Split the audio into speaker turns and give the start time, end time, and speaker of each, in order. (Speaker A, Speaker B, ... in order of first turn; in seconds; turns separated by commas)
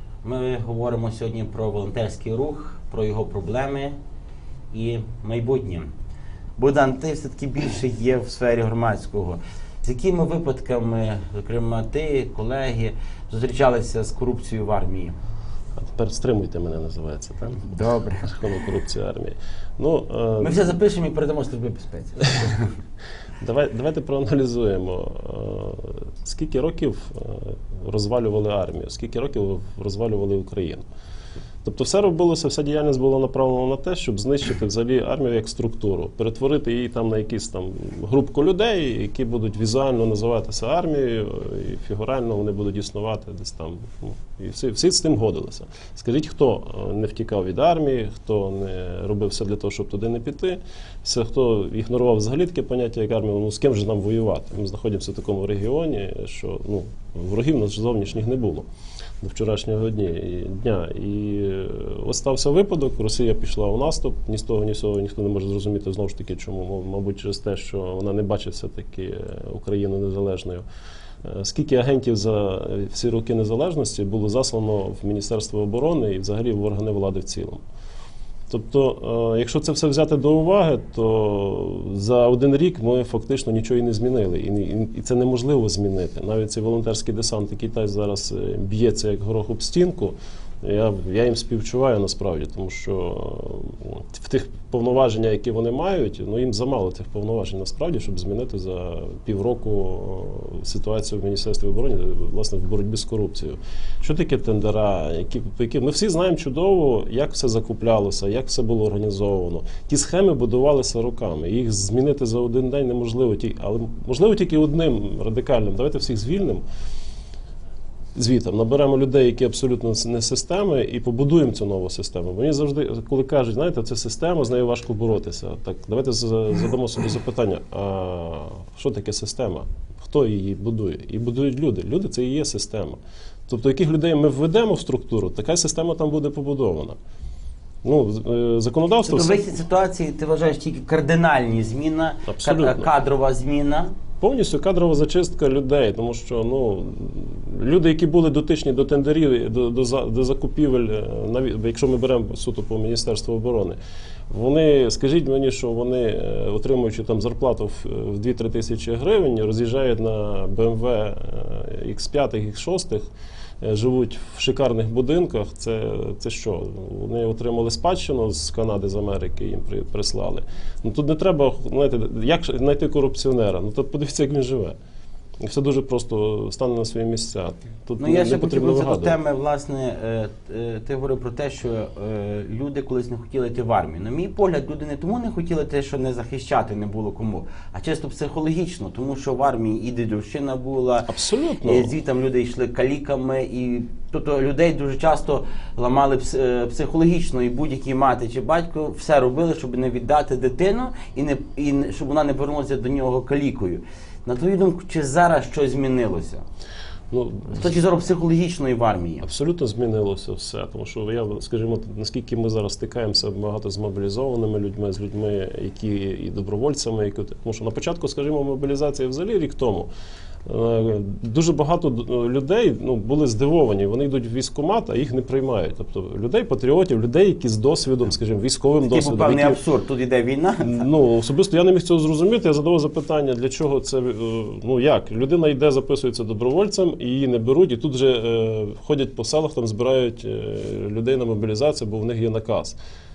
Speaker A: 0.2-4.0, Speaker A: 4.7-5.9, Speaker A: 6.6-15.2, Speaker B: 15.8-20.6, Speaker A: 17.7-18.4, Speaker A: 20.4-22.7, Speaker B: 22.3-22.5, Speaker B: 23.4-30.8, Speaker B: 31.6-58.6, Speaker B: 59.2-70.6, Speaker B: 71.2-77.6, Speaker B: 78.5-116.6, Speaker B: 118.1-136.9, Speaker B: 137.8-139.4, Speaker A: 139.1-143.9, Speaker B: 142.3-142.9, Speaker B: 144.2-153.8, Speaker B: 154.3-163.1, Speaker B: 163.6-174.8, Speaker B: 175.4-179.2, Speaker A: 178.0-191.1, Speaker B: 191.1-191.9, Speaker A: 191.6-206.4, Speaker B: 207.1-207.8, Speaker A: 207.5-209.2, Speaker B: 209.2-219.9, Speaker B: 220.4-229.6, Speaker A: 228.8-230.8, Speaker B: 230.6-242.8